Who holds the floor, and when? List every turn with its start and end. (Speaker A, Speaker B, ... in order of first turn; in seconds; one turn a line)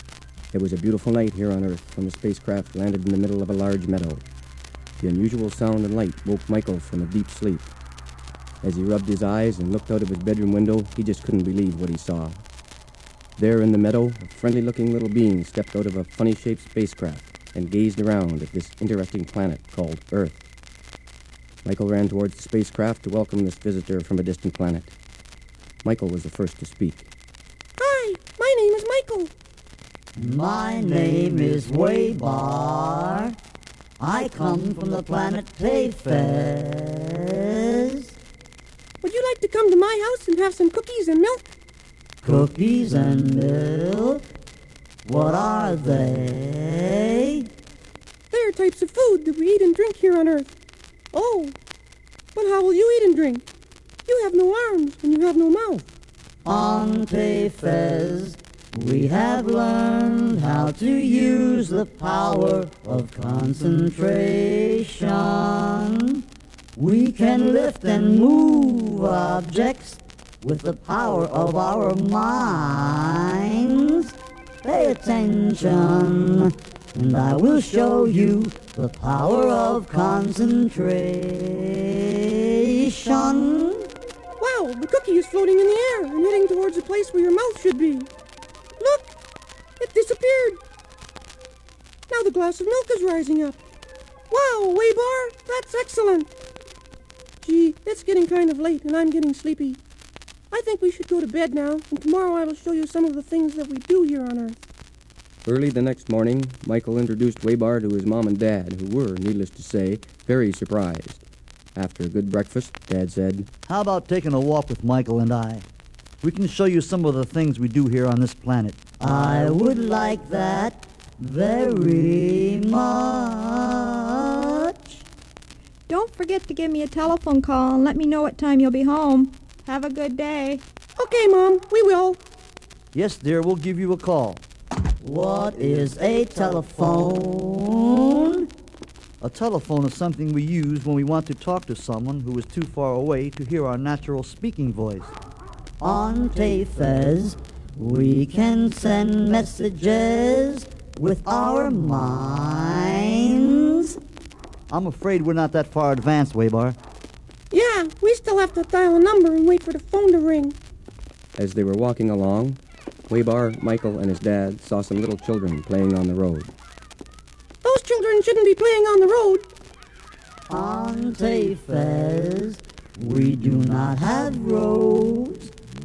Speaker A: 0.5-4.2
Speaker A: 5.0-7.7
Speaker A: 8.6-12.4
Speaker A: 13.4-20.4
Speaker A: 21.6-24.9
Speaker A: 25.8-27.1
Speaker B: 27.8-29.3
Speaker C: 30.2-33.4
Speaker C: 34.0-38.1
Speaker B: 39.0-41.5
Speaker C: 42.2-44.2
Speaker C: 45.0-47.5
Speaker B: 48.3-50.5
Speaker B: 51.1-51.5
Speaker B: 52.4-53.5
Speaker B: 54.1-55.9
Speaker C: 56.5-66.2
Speaker C: 66.8-83.9
Speaker B: 84.4-88.1
Speaker B: 88.8-89.1
Speaker B: 89.8-90.6
Speaker B: 92.1-93.6
Speaker B: 94.3-96.3
Speaker B: 97.4-99.8
Speaker B: 100.5-104.6
Speaker A: 105.5-113.5
Speaker D: 113.7-115.6
Speaker D: 116.2-118.8
Speaker C: 119.0-125.0
Speaker E: 125.9-130.6
Speaker B: 131.0-132.2
Speaker D: 132.9-134.4
Speaker C: 135.0-138.5
Speaker D: 139.2-145.2
Speaker C: 145.8-154.0
Speaker D: 154.7-156.8
Speaker B: 157.5-160.6
Speaker A: 161.4-166.5
Speaker B: 167.6-169.4
Speaker C: 170.5-175.5